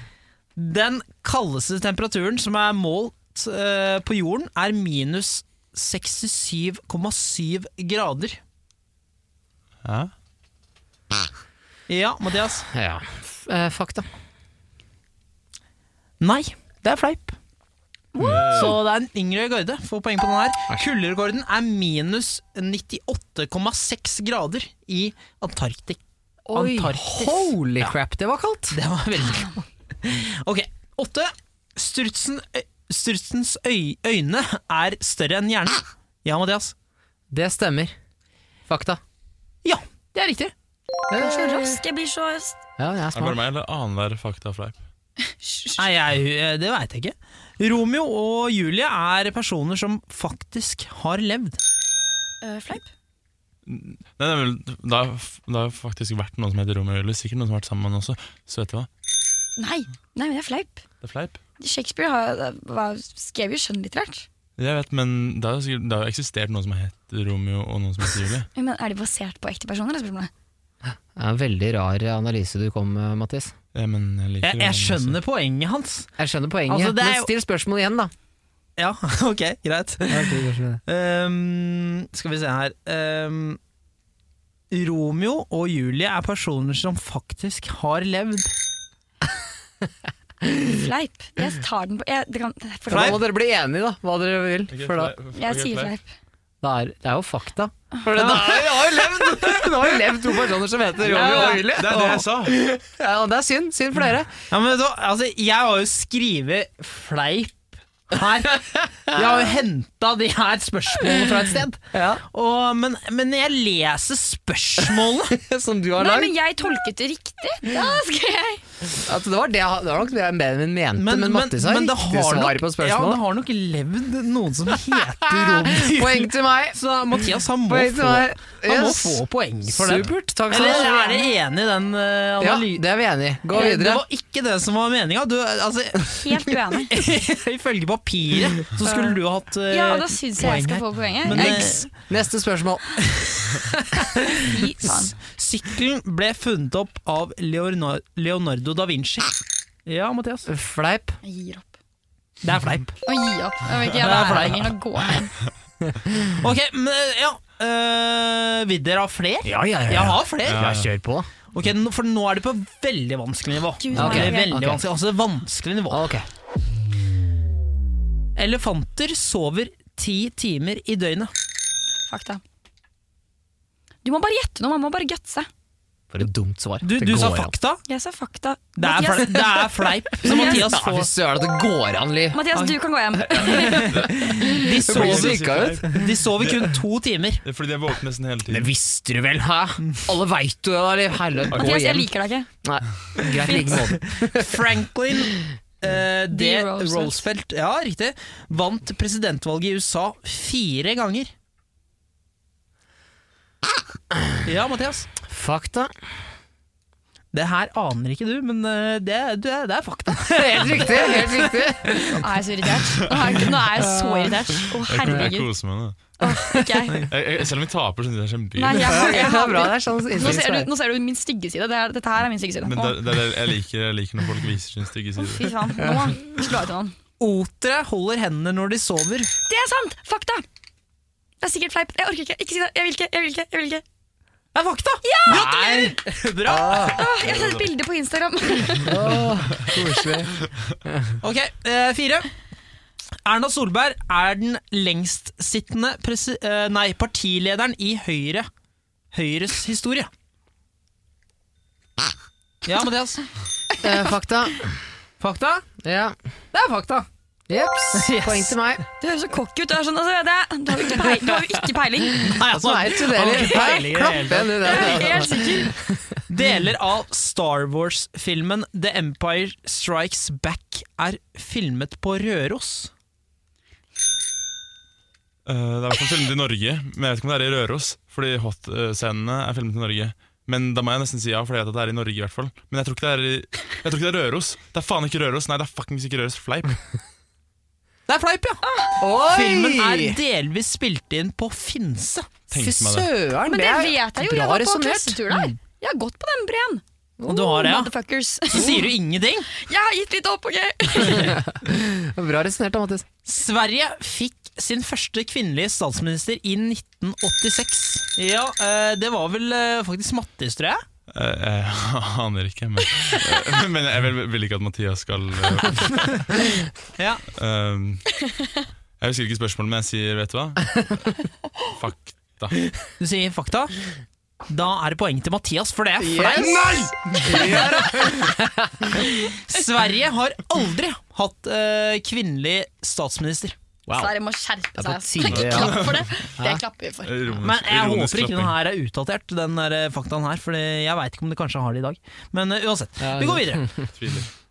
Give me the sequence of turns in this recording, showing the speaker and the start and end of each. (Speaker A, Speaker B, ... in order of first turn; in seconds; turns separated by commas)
Speaker A: 0.6-8.4, Speaker B: 9.8-10.1, Speaker A: 11.9-12.7, Speaker C: 12.7-14.1, Speaker A: 16.2-17.4, Speaker D: 18.1-18.7, Speaker B: 18.2-18.8, Speaker A: 18.5-26.0, Speaker C: 26.5-28.8, Speaker A: 26.5-27.9, Speaker A: 28.7-29.5, Speaker D: 29.2-29.5, Speaker A: 30.0-36.7, Speaker C: 37.3-38.0, Speaker C: 38.7-39.0, Speaker A: 39.6-40.5, Speaker C: 41.1-41.8, Speaker D: 41.1-42.6, Speaker C: 42.8-43.4, Speaker B: 43.1-44.8, Speaker D: 45.2-45.9, Speaker A: 45.8-51.6, Speaker D: 52.4-52.9, Speaker B: 53.6-58.9, Speaker D: 59.6-60.8, Speaker B: 61.0-61.4, Speaker D: 61.6-64.3, Speaker B: 64.6-68.5, Speaker D: 68.5-70.3, Speaker C: 70.9-73.5, Speaker B: 73.7-75.2, Speaker A: 74.4-76.1, Speaker C: 76.2-78.1, Speaker A: 76.7-77.3, Speaker A: 78.8-83.6, Speaker C: 80.1-80.8, Speaker A: 84.7-88.5, Speaker D: 90.6-93.2, Speaker C: 92.9-95.1, Speaker A: 92.9-93.2, Speaker B: 94.7-95.9, Speaker D: 95.3-96.1, Speaker C: 96.6-104.3, Speaker B: 101.0-102.6, Speaker A: 104.5-115.4, Speaker C: 111.9-112.2, Speaker C: 115.3-116.4, Speaker D: 116.0-118.6, Speaker C: 119.0-123.2, Speaker A: 121.0-132.8, Speaker C: 125.2-131.1, Speaker D: 130.5-131.2, Speaker C: 132.4-134.0, Speaker A: 133.5-141.9, Speaker D: 136.1-137.0, Speaker D: 139.7-141.9, Speaker C: 141.3-143.1, Speaker A: 143.4-149.3, Speaker D: 144.4-145.1, Speaker A: 149.9-150.5, Speaker C: 150.5-151.2, Speaker D: 151.2-151.7, Speaker A: 152.4-153.0, Speaker D: 153.1-155.3, Speaker A: 154.0-154.7, Speaker C: 155.9-156.2, Speaker A: 156.4-160.8, Speaker C: 159.4-161.3, Speaker B: 160.5-160.9, Speaker A: 161.5-166.0, Speaker D: 163.8-164.8, Speaker C: 163.9-164.8, Speaker C: 165.9-166.2, Speaker A: 168.4-171.3, Speaker D: 172.1-172.4, Speaker D: 174.0-175.5, Speaker C: 176.1-177.6, Speaker A: 176.8-177.8, Speaker D: 177.9-180.7, Speaker A: 178.8-181.1, Speaker C: 180.2-182.4, Speaker D: 182.3-184.1, Speaker B: 183.3-186.7, Speaker A: 183.4-187.4, Speaker C: 184.3-186.1, Speaker B: 187.4-188.7, Speaker C: 188.5-192.1, Speaker B: 191.5-191.8, Speaker D: 191.6-192.5, Speaker C: 192.6-194.6, Speaker D: 193.4-193.8, Speaker A: 194.1-201.3, Speaker D: 196.3-197.2, Speaker A: 204.4-205.1, Speaker C: 205.2-205.9, Speaker A: 207.3-211.6, Speaker C: 210.3-212.2, Speaker D: 212.1-215.5, Speaker C: 213.7-214.5, Speaker B: 214.8-216.0, Speaker D: 216.2-217.1, Speaker C: 216.2-216.9, Speaker B: 217.1-219.3, Speaker D: 218.6-223.0, Speaker C: 218.8-220.7, Speaker B: 222.6-225.5, Speaker D: 225.2-227.0, Speaker C: 225.8-226.2, Speaker A: 227.2-229.3, Speaker D: 229.5-230.4, Speaker D: 231.4-233.8, Speaker A: 234.6-237.0, Speaker D: 235.0-235.9, Speaker C: 235.3-235.8, Speaker C: 236.5-237.1, Speaker D: 236.6-239.0, Speaker B: 237.2-237.7, Speaker C: 238.8-241.2, Speaker D: 239.7-240.1, Speaker A: 241.2-242.3, Speaker A: 243.2-248.5, Speaker A: 249.1-250.1, Speaker A: 252.6-253.2, Speaker C: 253.8-254.8, Speaker A: 255.2-255.6, Speaker C: 255.8-256.1, Speaker A: 256.5-257.1, Speaker C: 257.5-258.8, Speaker A: 257.9-258.6, Speaker D: 259.0-262.3, Speaker C: 260.9-261.4, Speaker A: 262.2-265.0, Speaker C: 262.3-266.1, Speaker D: 263.4-263.6, Speaker D: 264.6-265.7, Speaker A: 266.3-272.9, Speaker B: 275.5-286.8, Speaker A: 288.1-288.6, Speaker D: 288.6-289.0, Speaker C: 289.0-290.2, Speaker A: 289.1-292.3, Speaker B: 292.5-293.1, Speaker C: 292.5-295.6, Speaker D: 293.4-298.9, Speaker C: 297.2-297.6, Speaker A: 297.3-297.9, Speaker A: 298.5-299.5, Speaker D: 299.5-301.4, Speaker C: 301.0-303.1, Speaker A: 303.2-310.8, Speaker B: 311.1-316.3, Speaker A: 317.0-317.2, Speaker B: 317.4-318.1, Speaker B: 319.0-321.1, Speaker B: 321.7-322.6, Speaker A: 322.9-323.7, Speaker A: 324.5-327.9, Speaker C: 326.0-329.1, Speaker A: 329.0-333.6, Speaker C: 333.9-334.1, Speaker D: 333.9-337.2, Speaker C: 334.8-336.6, Speaker B: 335.2-336.3, Speaker B: 337.0-338.6, Speaker A: 337.4-343.7, Speaker C: 343.0-343.9, Speaker B: 344.0-344.3